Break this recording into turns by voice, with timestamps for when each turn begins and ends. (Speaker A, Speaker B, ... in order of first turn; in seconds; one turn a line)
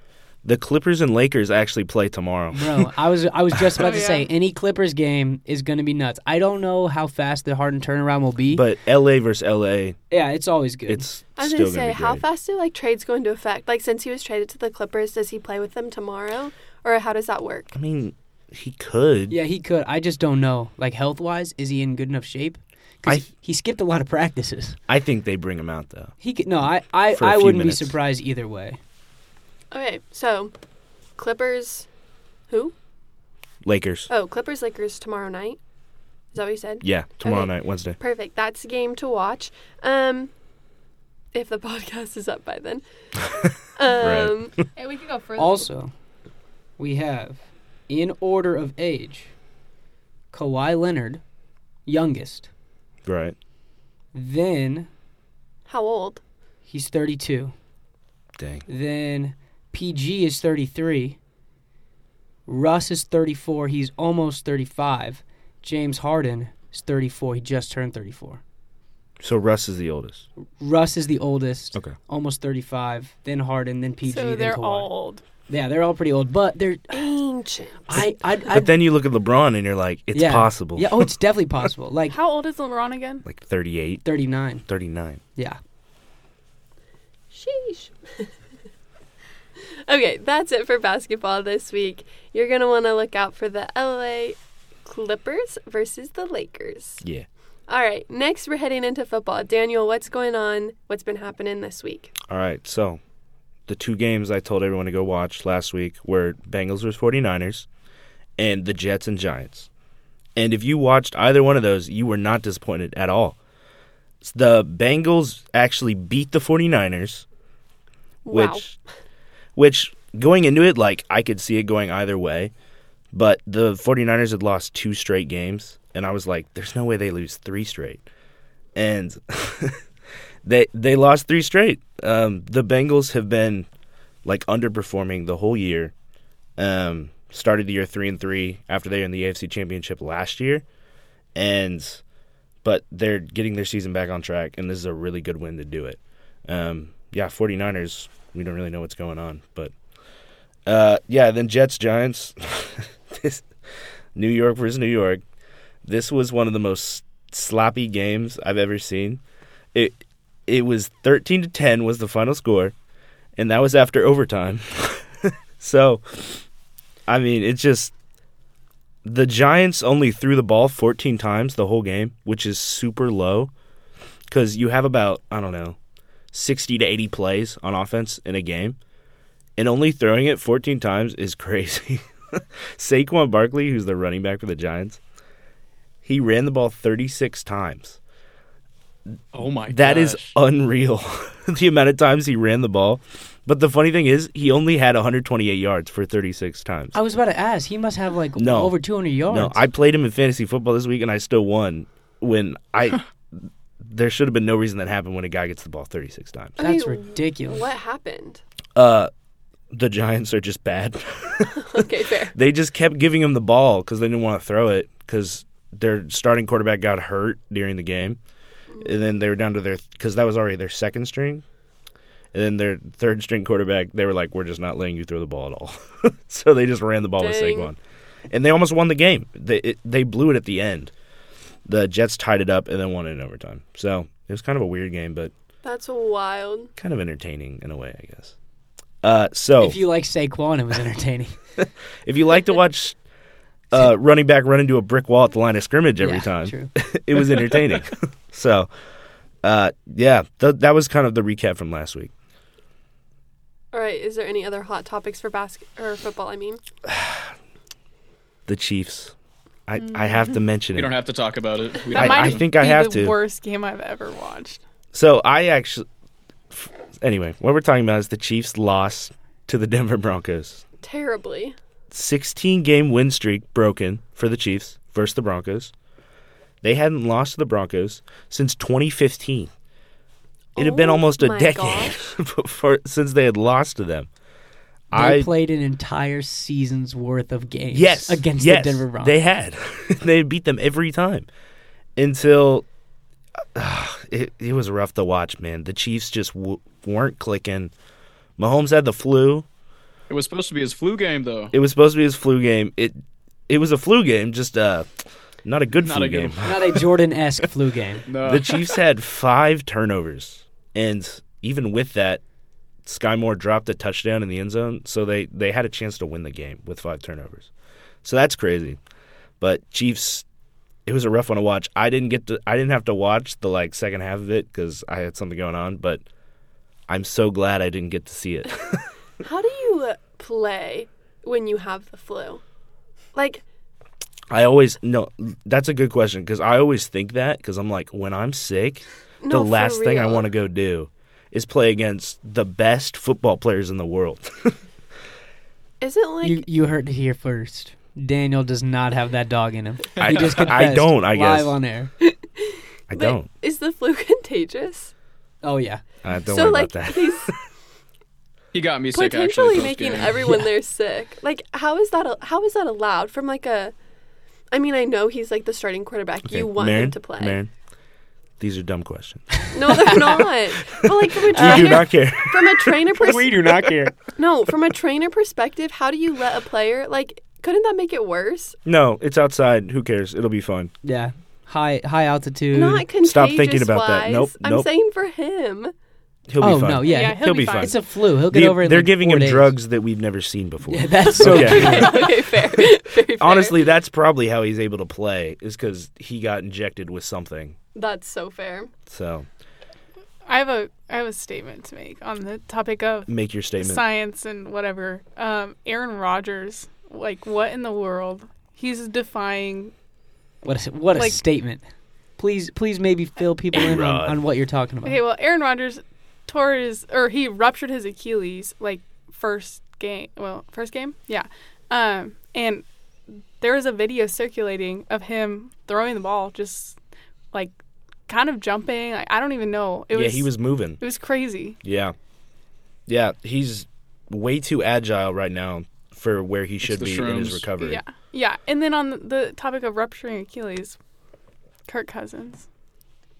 Speaker A: 0.4-2.9
Speaker B: 2.5-8.6
Speaker C: 3.8-4.3
Speaker A: 8.5-10.0
Speaker B: 10.1-11.1
Speaker A: 10.9-12.2
Speaker D: 11.4-17.7
Speaker A: 17.7-19.4
Speaker B: 19.3-24.8
Speaker A: 24.9-26.1
Speaker B: 26.2-28.8
Speaker A: 27.1-27.9
Speaker D: 29.7-30.5
Speaker D: 31.2-31.9
Speaker A: 33.6-34.1
Speaker D: 34.1-35.6
Speaker D: 36.3-40.3
Speaker A: 36.8-38.0
Speaker D: 41.3-42.8
Speaker D: 43.4-44.7
Speaker A: 43.9-44.5
Speaker C: 44.8-45.6
Speaker B: 45.4-45.9
Speaker B: 46.8-49.3
Speaker B: 50.3-51.2
Speaker B: 51.9-52.5
Speaker A: 53.0-53.4
Speaker B: 54.1-54.9
Speaker D: 55.7-56.2
Speaker B: 56.7-57.5
Speaker A: 58.4-58.6
Speaker B: 58.7-61.2
Speaker B: 62.5-68.4
Speaker A: 69.2-70.2
Speaker B: 70.6-74.9
Speaker C: 74.1-75.2
Speaker B: 75.5-77.1
Speaker D: 76.9-78.0
Speaker B: 77.9-78.7
Speaker A: 78.5-81.0
Speaker B: 80.1-82.2
Speaker C: 82.1-83.2
Speaker A: 83.2-84.0
Speaker B: 84.0-84.6
Speaker A: 84.7-85.2
Speaker D: 87.3-88.3
Speaker D: 89.6-97.0
Speaker A: 97.0-97.3
Speaker D: 97.7-102.1
Speaker A: 102.3-103.0
Speaker A: 103.7-107.7
Speaker A: 108.4-109.7
Speaker A: 110.3-113.4
Speaker A: 114.2-117.2
Speaker D: 118.2-118.6
Speaker A: 118.3-118.8
Speaker A: 119.5-122.5
Speaker A: 123.1-128.0
Speaker A: 128.7-129.8
Speaker A: 130.4-133.7
Speaker A: 134.2-135.9
Speaker A: 136.6-140.6
Speaker A: 141.3-142.0
Speaker A: 142.6-149.7
Speaker A: 150.7-153.5
Speaker A: 154.1-155.2
Speaker A: 155.8-159.2
Speaker A: 159.7-162.7
Speaker A: 163.3-166.4
Speaker A: 167.1-167.9
Speaker A: 169.0-173.5
Speaker A: 174.3-175.8
Speaker A: 176.3-178.8
Speaker A: 179.6-185.0
Speaker A: 186.0-188.0
Speaker E: 189.3-190.3
Speaker A: 189.7-196.9
Speaker B: 196.9-199.6
Speaker A: 198.4-198.8
Speaker A: 199.3-206.6
Speaker D: 206.6-208.4
Speaker B: 206.6-207.6
Speaker A: 208.8-209.1
Speaker A: 209.7-218.2
Speaker D: 211.6-212.3
Speaker A: 218.8-221.4
Speaker A: 222.3-227.8
Speaker D: 227.2-227.7
Speaker A: 228.3-230.9
Speaker A: 231.7-235.3
Speaker D: 235.6-236.7
Speaker A: 236.8-238.3
Speaker A: 239.0-239.8
Speaker B: 239.6-241.4
Speaker A: 241.6-243.0
Speaker A: 243.7-248.7
Speaker B: 246.0-246.7
Speaker A: 249.4-252.1
Speaker D: 253.7-256.6
Speaker A: 256.9-257.3
Speaker A: 258.5-259.1
Speaker A: 259.7-260.9
Speaker E: 260.7-262.4
Speaker C: 261.9-264.6
Speaker A: 261.9-263.1
Speaker A: 264.9-265.9
Speaker A: 266.5-270.6
Speaker D: 270.8-271.6
Speaker A: 271.9-275.7
Speaker A: 276.6-279.5
Speaker D: 280.6-282.0
Speaker A: 280.6-284.1
Speaker A: 284.9-285.3
Speaker B: 284.9-289.1
Speaker A: 287.7-291.3
Speaker A: 291.9-292.6
Speaker A: 293.5-297.7
Speaker A: 298.4-299.4
Speaker E: 300.1-301.5
Speaker A: 301.5-304.9
Speaker A: 305.4-306.8
Speaker E: 305.8-306.4
Speaker B: 306.4-308.0
Speaker E: 308.1-308.7
Speaker A: 308.2-312.2
Speaker A: 312.8-317.5
Speaker A: 318.0-318.8
Speaker A: 319.4-320.2
Speaker A: 320.9-326.0
Speaker A: 326.9-328.9
Speaker D: 329.2-332.4
Speaker D: 333.1-333.4
Speaker A: 334.3-344.6
Speaker D: 339.2-340.2
Speaker D: 345.8-346.4
Speaker B: 346.2-351.9
Speaker A: 350.0-351.6
Speaker D: 352.0-354.9
Speaker A: 352.9-353.3
Speaker B: 355.4-355.8
Speaker A: 356.0-357.4
Speaker D: 356.3-357.3
Speaker E: 358.5-360.3
Speaker D: 358.9-363.7
Speaker D: 364.5-367.4
Speaker A: 366.2-367.5
Speaker A: 368.4-373.6
Speaker D: 369.5-373.3
Speaker B: 369.7-370.0
Speaker B: 371.3-371.8
Speaker B: 373.0-373.9
Speaker D: 374.1-378.6
Speaker A: 378.6-380.7
Speaker B: 380.8-382.8
Speaker D: 382.5-385.7
Speaker A: 383.0-384.7
Speaker A: 386.3-392.3
Speaker B: 386.4-389.5
Speaker C: 386.8-387.7
Speaker B: 390.7-392.2
Speaker D: 391.2-393.6
Speaker A: 393.1-397.6
Speaker D: 397.7-398.7
Speaker A: 398.9-399.3
Speaker C: 400.2-409.7
Speaker A: 403.1-403.8
Speaker B: 410.4-411.6
Speaker B: 412.2-415.0
Speaker A: 413.5-414.2
Speaker C: 414.8-422.6
Speaker C: 423.4-426.8
Speaker C: 428.1-431.6
Speaker A: 429.9-430.8
Speaker A: 431.6-431.9
Speaker A: 432.9-437.8
Speaker E: 436.6-437.5
Speaker C: 437.6-440.8
Speaker C: 441.7-442.4